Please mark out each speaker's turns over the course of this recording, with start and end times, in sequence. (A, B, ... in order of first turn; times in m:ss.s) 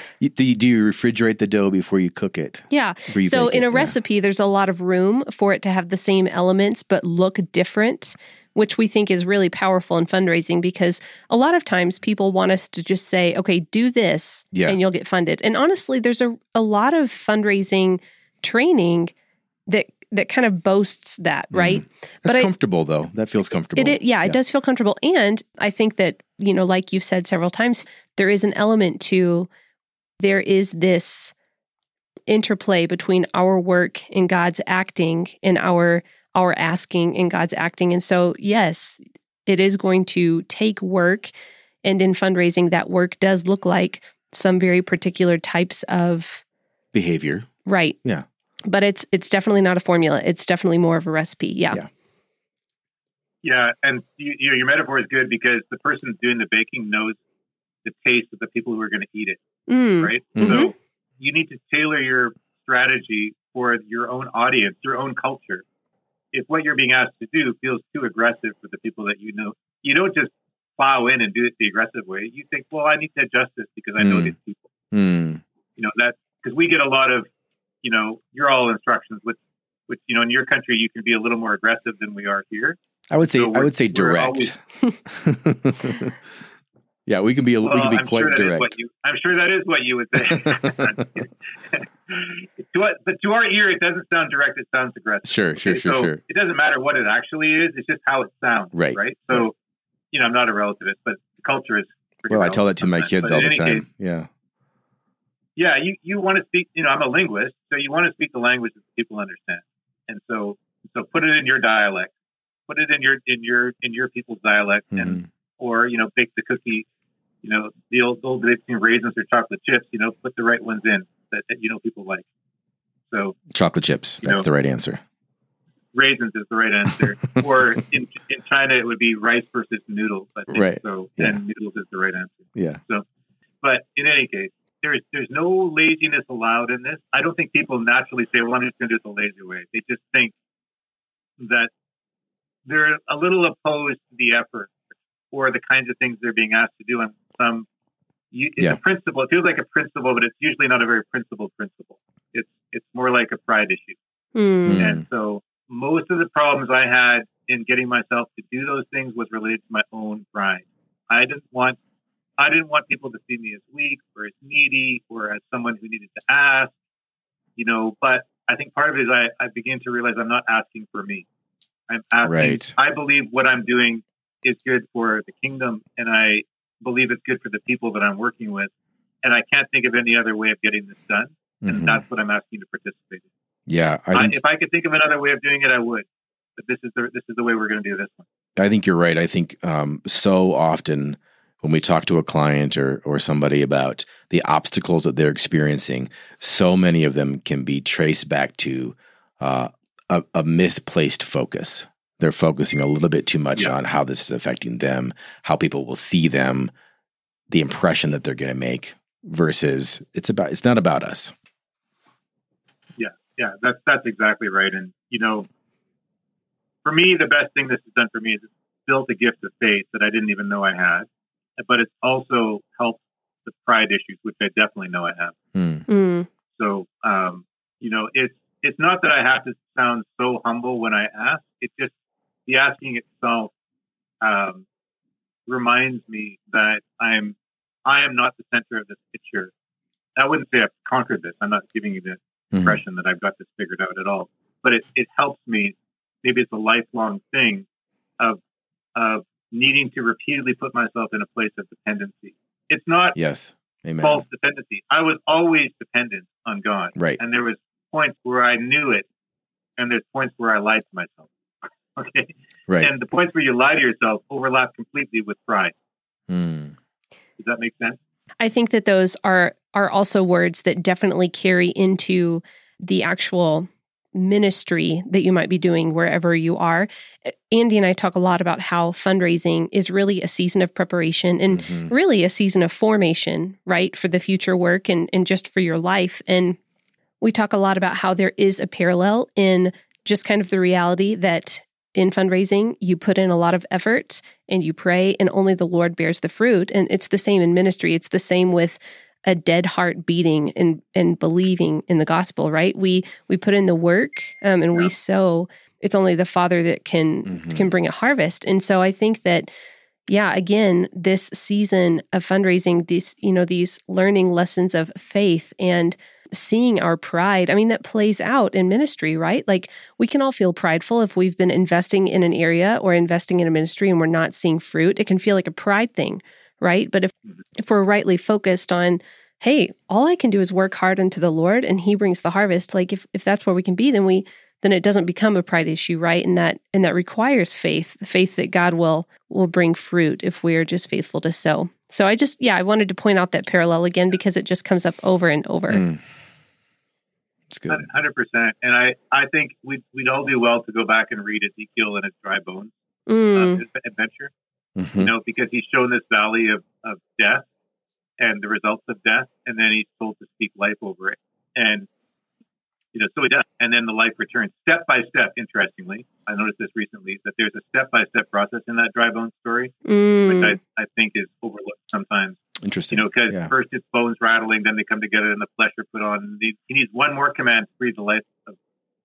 0:00.2-0:04.0 A
0:02.7-0:19.1 B
0:14.5-0:14.8 A
0:19.7-0:22.5 B
0:21.5-0:24.4 A
0:23.8-0:29.5 B
0:30.2-0:31.3 B
0:32.3-0:41.3 B
0:41.8-0:46.4 B
0:46.9-0:47.5 A
0:47.7-0:48.0 B
0:48.7-0:51.8 B
0:53.4-0:57.2 C
0:57.8-0:59.4 C
0:59.7-1:00.7 B
1:00.0-1:05.6 C
1:00.4-1:00.6 A
1:06.3-1:14.7 C
1:14.0-1:14.3 A
1:14.9-1:15.4 A
1:15.8-1:17.3 C
1:17.8-1:24.5 C
1:23.1-1:26.2 A
1:27.1-1:28.7 A
1:27.6-1:39.5 C
1:30.2-1:31.1 A
1:35.3-1:36.2 A
1:38.7-1:39.5 A
1:40.1-1:43.8 C
1:42.3-1:44.3 A
1:45.6-1:52.1 C
1:52.7-1:56.8 C
1:55.0-1:55.2 A
1:57.4-2:02.2 C
2:03.1-2:03.4 C
2:03.5-2:05.0 A
2:05.9-2:13.0 C
2:10.5-2:11.4 A
2:13.6-2:20.3 C
2:21.4-2:21.7 C
2:22.7-2:24.8 C
2:25.3-2:27.7 C
2:28.3-2:34.0 C
2:34.4-2:34.8 B
2:34.6-2:35.0 A
2:34.8-2:41.8 C
2:42.4-2:46.7 C
2:47.6-2:51.2 C
2:51.9-2:58.7 C
2:52.2-2:52.7 A
2:59.2-3:03.3 C
3:01.6-3:02.0 A
3:03.7-3:04.4 A
3:04.1-3:06.1 C
3:06.6-3:08.3 C
3:08.6-3:26.7 A
3:27.5-3:31.3 A
3:33.0-3:35.5 C
3:36.8-3:45.4 C
3:45.6-3:45.8 A
3:45.9-3:46.3 B
3:46.6-3:51.9 C
3:52.5-3:53.5 C
3:54.2-3:54.6 C
3:55.5-3:57.4 C
3:57.9-3:59.5 C
4:00.2-4:07.7 C
4:02.5-4:02.8 A
4:09.0-4:13.2 C
4:13.2-4:14.2 A
4:14.0-4:19.1 C
4:19.8-4:21.3 C
4:22.0-4:25.7 C
4:26.3-4:26.8 A
4:27.4-4:28.0 C
4:28.4-4:46.6 B
4:41.5-4:41.9 A
4:47.2-5:09.5 B
5:07.3-5:07.7 A
5:10.1-5:45.8 B
5:45.7-5:46.0 A
5:47.5-5:47.9 A
5:47.7-5:52.7 C
5:53.1-5:53.6 B
5:53.3-5:54.3 C
5:54.8-5:55.1 A
5:55.0-5:57.5 C
5:58.2-6:01.9 C
6:02.9-6:12.4 C
6:09.9-6:10.6 B
6:12.6-6:13.5 A
6:12.9-6:18.6 C